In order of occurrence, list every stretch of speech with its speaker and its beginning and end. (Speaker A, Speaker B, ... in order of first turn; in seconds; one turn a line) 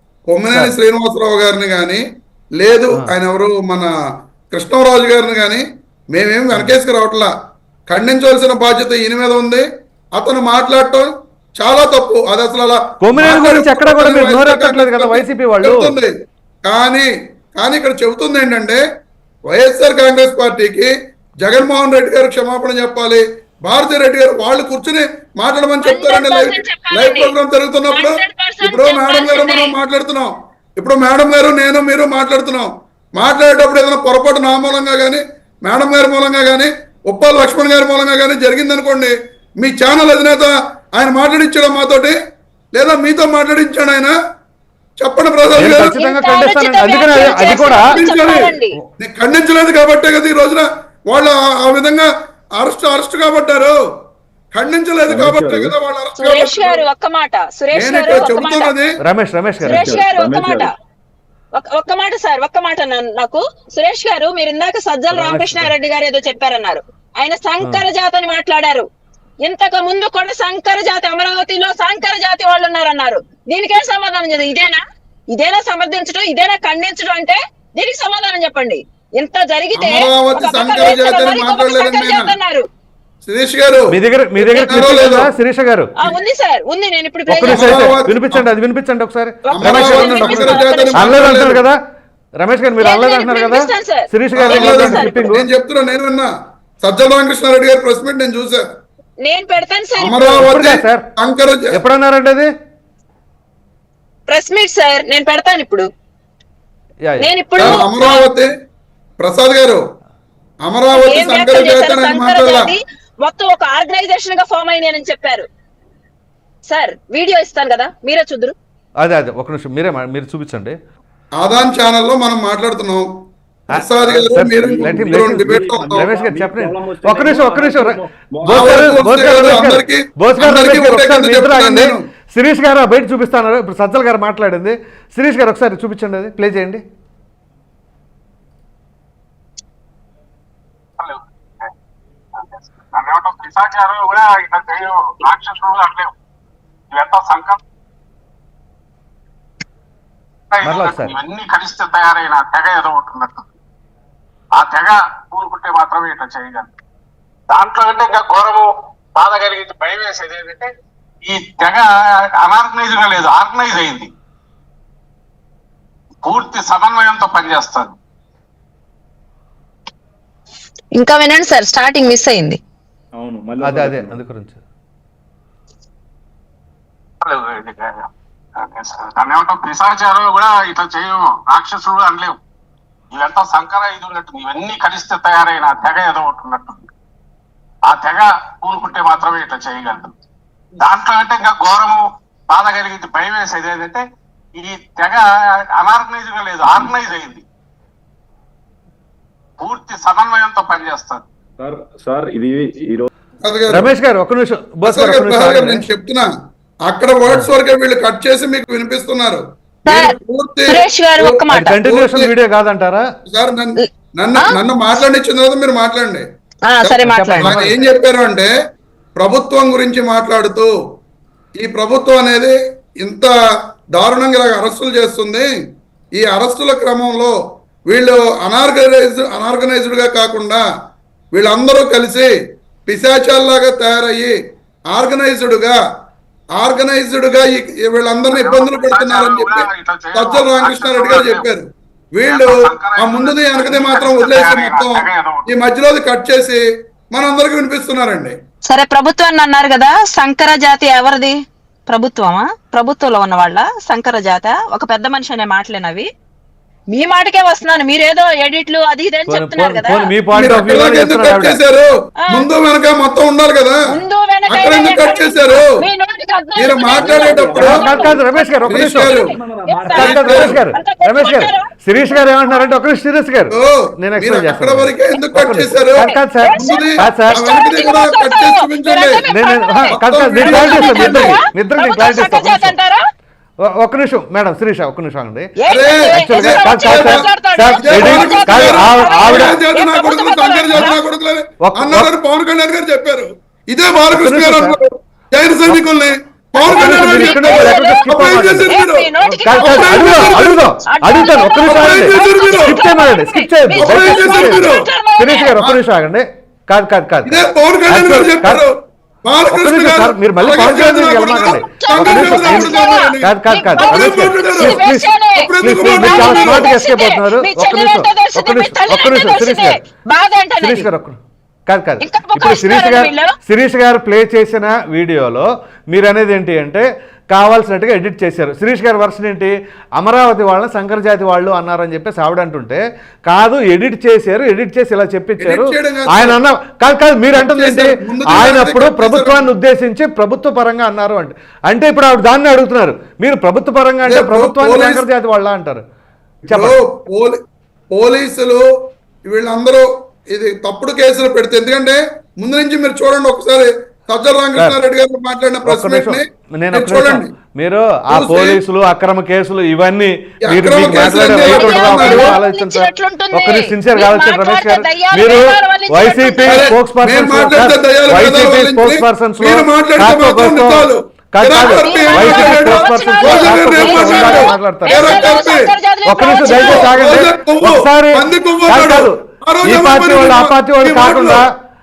Speaker A: 0.3-2.0
Speaker A: 2.6-3.9
Speaker A: 4.5-7.3
Speaker A: 7.9-18.8
Speaker B: 13.0-15.9
Speaker A: 19.5-42.2
Speaker C: 25.8-27.3
Speaker C: 27.9-29.7
Speaker A: 42.7-44.1
Speaker A: 45.0-46.0
Speaker B: 45.6-48.0
Speaker C: 45.6-48.8
Speaker A: 47.9-53.8
Speaker A: 54.5-56.8
Speaker D: 55.1-55.7
Speaker C: 56.2-58.7
Speaker A: 57.7-59.0
Speaker B: 59.0-59.9
Speaker C: 59.6-60.7
Speaker D: 59.7-60.7
Speaker C: 61.5-68.9
Speaker B: 65.1-65.7
Speaker C: 69.4-82.7
Speaker A: 79.8-82.3
Speaker A: 83.2-84.0
Speaker B: 83.9-85.9
Speaker C: 84.4-85.1
Speaker A: 84.7-85.3
Speaker C: 86.0-88.0
Speaker B: 87.3-91.8
Speaker A: 87.4-88.5
Speaker C: 89.5-91.3
Speaker A: 89.5-91.6
Speaker B: 92.4-95.5
Speaker C: 92.8-95.1
Speaker A: 94.3-96.3
Speaker A: 96.8-98.7
Speaker C: 99.2-100.5
Speaker A: 100.0-101.8
Speaker B: 100.4-101.1
Speaker B: 101.7-102.5
Speaker C: 104.3-105.9
Speaker B: 107.0-107.8
Speaker C: 107.2-108.3
Speaker A: 107.6-108.5
Speaker A: 109.2-109.8
Speaker A: 110.6-112.7
Speaker C: 110.9-115.5
Speaker C: 116.7-118.5
Speaker B: 119.0-120.8
Speaker A: 121.4-123.1
Speaker A: 123.7-126.1
Speaker B: 123.7-136.8
Speaker D: 124.0-129.0
Speaker A: 128.5-132.0
Speaker E: 141.0-141.7
Speaker E: 142.3-146.1
Speaker E: 146.9-147.6
Speaker E: 150.5-153.4
Speaker B: 150.6-151.1
Speaker E: 154.6-156.7
Speaker E: 157.5-164.1
Speaker E: 166.2-168.0
Speaker C: 170.9-172.6
Speaker D: 173.1-174.2
Speaker B: 173.6-174.6
Speaker E: 177.2-182.4
Speaker E: 183.2-186.8
Speaker E: 187.9-190.1
Speaker E: 190.8-194.0
Speaker E: 194.6-197.4
Speaker E: 199.6-201.2
Speaker D: 201.6-203.1
Speaker A: 203.4-203.9
Speaker B: 203.7-205.9
Speaker A: 204.9-206.3
Speaker A: 206.9-212.3
Speaker C: 209.9-210.1
Speaker C: 210.7-211.8
Speaker B: 211.5-213.1
Speaker A: 213.3-216.2
Speaker C: 216.7-217.6
Speaker A: 216.8-218.5
Speaker B: 217.1-217.8
Speaker A: 219.2-220.7
Speaker A: 221.6-223.3
Speaker A: 223.9-225.5
Speaker A: 226.2-227.4
Speaker A: 227.9-230.6
Speaker A: 231.3-232.3
Speaker A: 232.9-234.3
Speaker A: 234.9-235.8
Speaker A: 236.6-248.3
Speaker E: 238.3-241.4
Speaker E: 242.3-245.5
Speaker C: 248.7-251.4
Speaker C: 251.9-256.1
Speaker C: 256.9-260.1
Speaker B: 259.3-261.6
Speaker A: 260.3-263.8
Speaker C: 263.9-268.5
Speaker A: 264.5-265.8
Speaker A: 266.6-267.9
Speaker D: 266.9-268.2
Speaker B: 267.6-269.2
Speaker A: 268.7-269.4
Speaker C: 269.0-271.7
Speaker D: 269.3-270.4
Speaker B: 269.9-277.4
Speaker A: 270.0-270.6
Speaker A: 273.6-279.2
Speaker C: 276.0-283.0
Speaker B: 279.3-282.8
Speaker A: 279.9-281.4
Speaker B: 283.6-285.5
Speaker C: 285.6-291.0
Speaker A: 285.7-300.7
Speaker B: 286.1-289.6
Speaker B: 291.6-292.1
Speaker B: 294.1-294.8
Speaker C: 296.6-305.5
Speaker B: 296.6-308.6
Speaker A: 301.6-302.8
Speaker A: 303.7-304.9
Speaker A: 307.2-308.7
Speaker A: 309.2-314.8
Speaker B: 309.5-319.8
Speaker C: 311.8-320.9
Speaker A: 315.4-316.7
Speaker B: 320.6-345.8
Speaker C: 322.0-323.3
Speaker A: 335.4-336.4
Speaker A: 337.4-339.5
Speaker A: 344.0-345.0
Speaker B: 346.5-346.8
Speaker A: 346.5-347.4
Speaker A: 347.9-348.6
Speaker A: 349.3-357.3
Speaker B: 355.6-375.2
Speaker A: 358.1-358.6
Speaker A: 360.5-362.4
Speaker C: 361.0-366.7
Speaker A: 366.5-375.7
Speaker C: 371.6-376.9
Speaker B: 376.1-381.5
Speaker A: 376.4-381.4